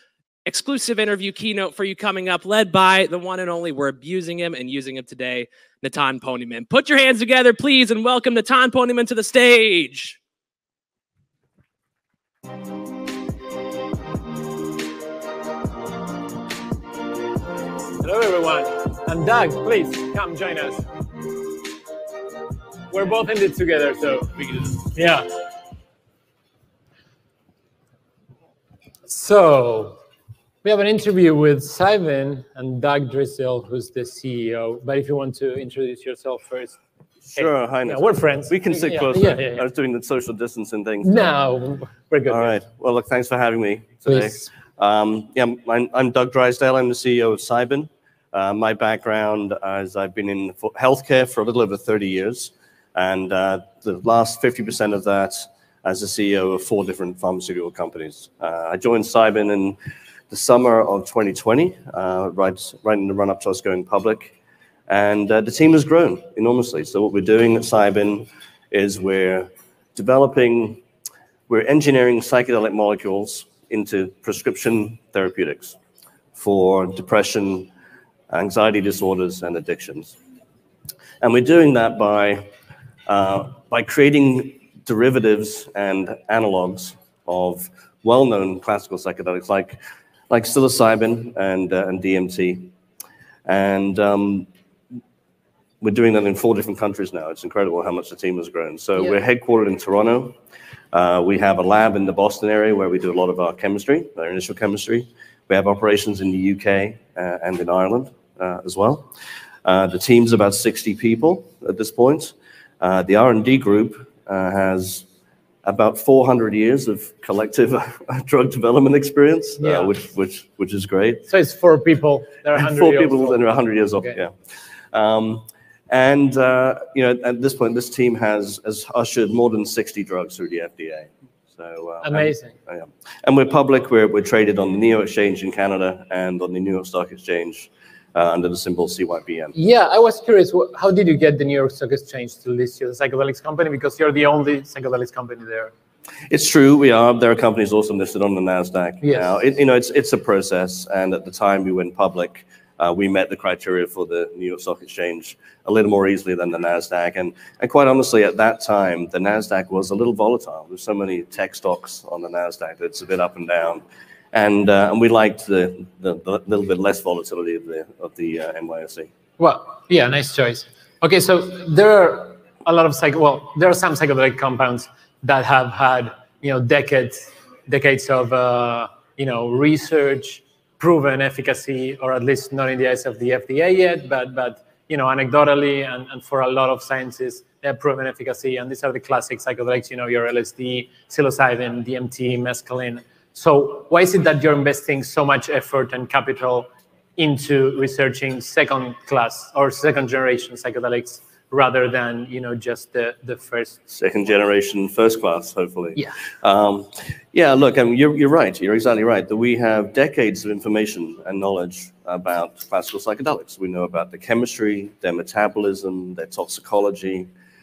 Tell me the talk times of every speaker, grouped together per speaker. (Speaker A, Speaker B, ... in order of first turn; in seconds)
Speaker A: 0.5-10.2
Speaker B: 18.0-20.9, 22.9-25.3, 29.1-30.0, 30.6-36.8, 37.3-39.7, 41.0-42.5, 44.1-44.5, 119.6-119.9, 121.3-124.2, 132.0-132.5, 139.5-145.7, 149.0-149.4, 169.4-203.8
Speaker C: 37.3-41.3, 42.3-59.8, 60.3-64.3, 64.9-70.8, 71.5-75.8, 76.3-77.7, 78.3-80.2, 81.2-82.5, 83.1-89.8, 90.3-92.7, 93.5-94.5, 95.8-100.4, 100.9-109.1, 109.7-115.1, 115.7-121.3, 122.5-124.3, 124.9-139.6, 146.3-169.1, 203.9-217.3